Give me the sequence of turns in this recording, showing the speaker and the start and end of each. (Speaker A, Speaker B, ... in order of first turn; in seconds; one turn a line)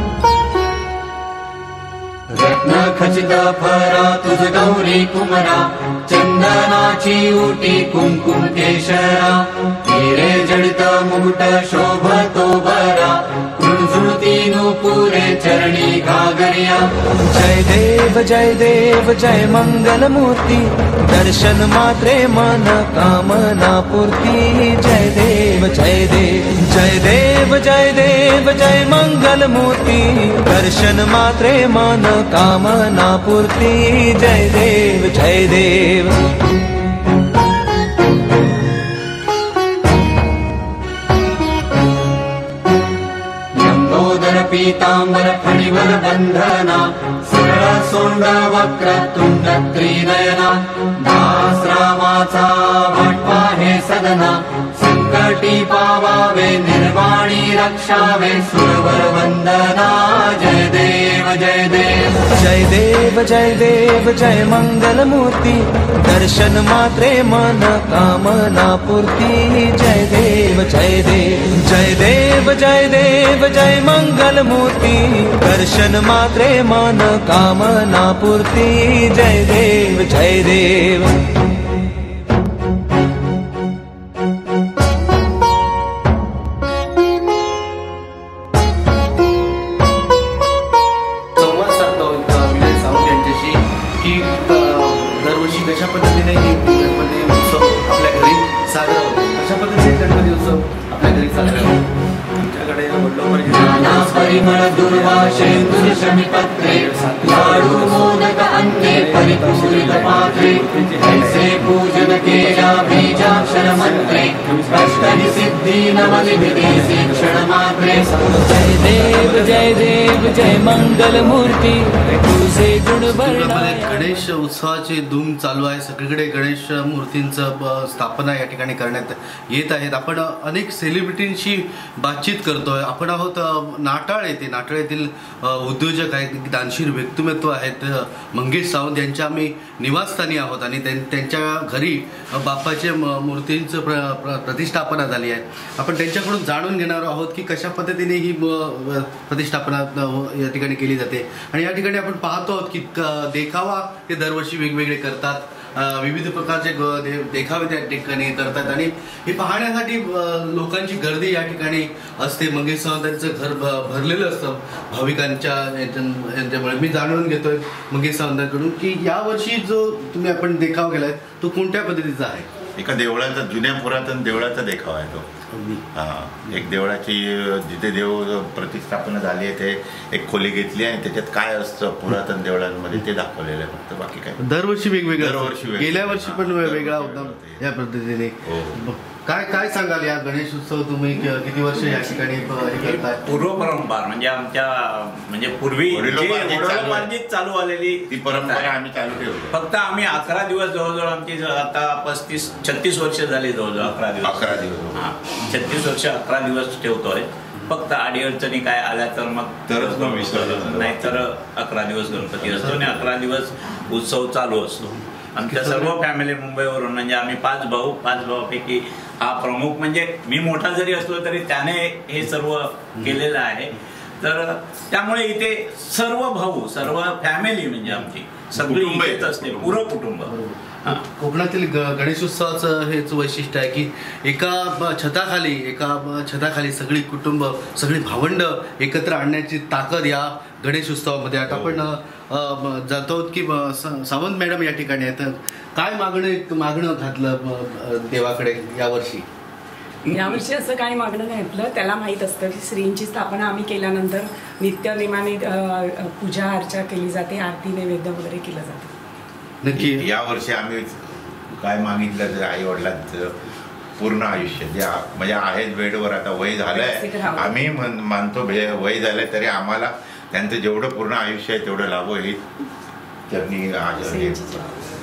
Speaker A: 2.3-16.9
Speaker B: 17.2-36.2
Speaker A: 43.5-62.3
Speaker B: 62.3-81.3
Speaker C: 91.3-101.8
Speaker C: 102.4-104.3
Speaker A: 103.4-118.9
Speaker B: 118.5-124.0
Speaker C: 123.2-172.5
Speaker D: 172.8-175.3
Speaker C: 175.5-175.8
Speaker D: 175.9-184.4
Speaker C: 184.4-193.2
Speaker D: 185.1-187.6
Speaker D: 188.4-188.8
Speaker E: 193.0-198.7
Speaker D: 195.9-197.1
Speaker D: 198.1-199.6
Speaker E: 199.5-230.3
Speaker D: 204.2-205.1
Speaker D: 209.7-211.2
Speaker C: 212.5-212.8
Speaker C: 215.4-216.0
Speaker D: 228.5-229.8
Speaker C: 230.2-249.2
Speaker D: 241.5-241.8
Speaker E: 250.1-250.4
Speaker F: 250.1-258.9
Speaker C: 259.6-260.1
Speaker D: 259.7-263.4
Speaker D: 264.0-272.4
Speaker F: 266.7-267.6
Speaker D: 273.3-274.8
Speaker F: 274.0-274.7